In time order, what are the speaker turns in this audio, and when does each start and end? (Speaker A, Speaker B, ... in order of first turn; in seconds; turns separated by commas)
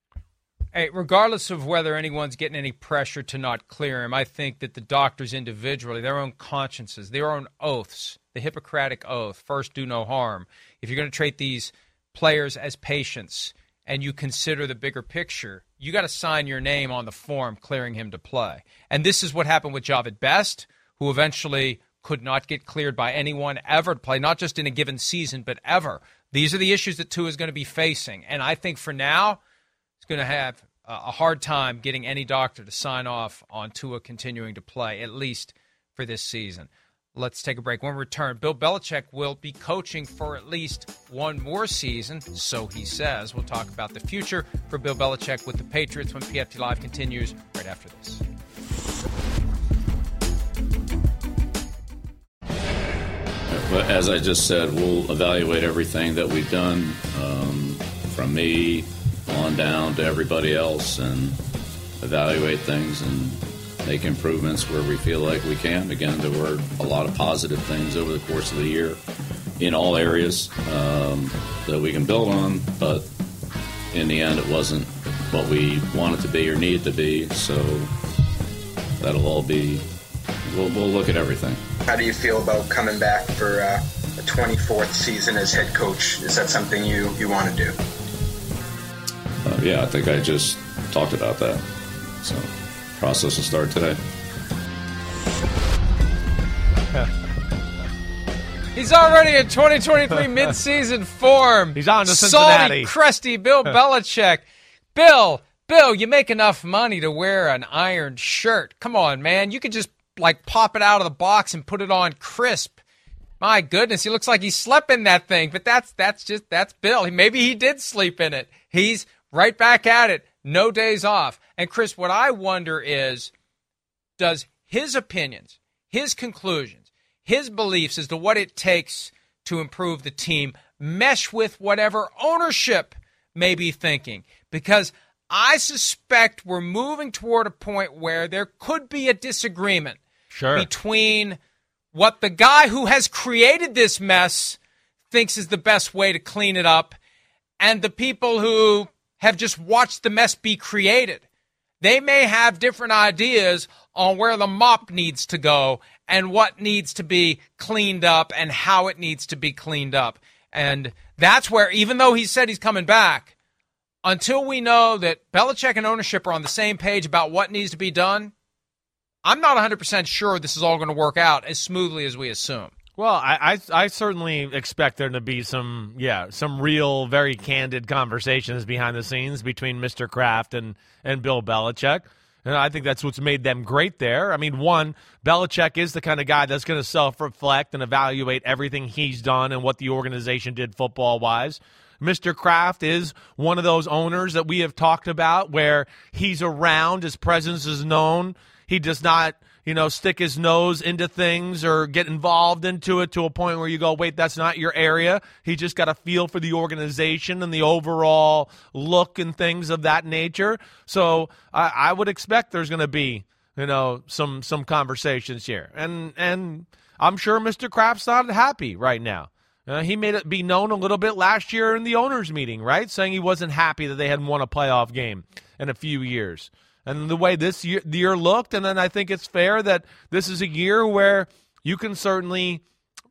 Speaker A: 0.7-29.4, Speaker A: 30.0-48.2, Speaker B: 53.5-61.4, Speaker B: 62.0-69.0, Speaker B: 69.6-73.1, Speaker B: 73.9-77.9, Speaker B: 79.0-79.8, Speaker B: 80.5-81.6, Speaker C: 81.9-87.8, Speaker B: 89.5-91.6, Speaker B: 92.2-94.0, Speaker A: 98.7-104.4, Speaker D: 101.7-102.9, Speaker A: 104.9-112.8, Speaker A: 113.4-123.3, Speaker A: 124.2-140.0, Speaker D: 140.3-140.7, Speaker A: 140.5-141.4, Speaker A: 141.9-144.6, Speaker A: 145.1-146.9, Speaker A: 147.6-151.2, Speaker A: 151.8-163.3, Speaker A: 164.0-168.3, Speaker A: 169.2-172.7, Speaker D: 173.0-232.6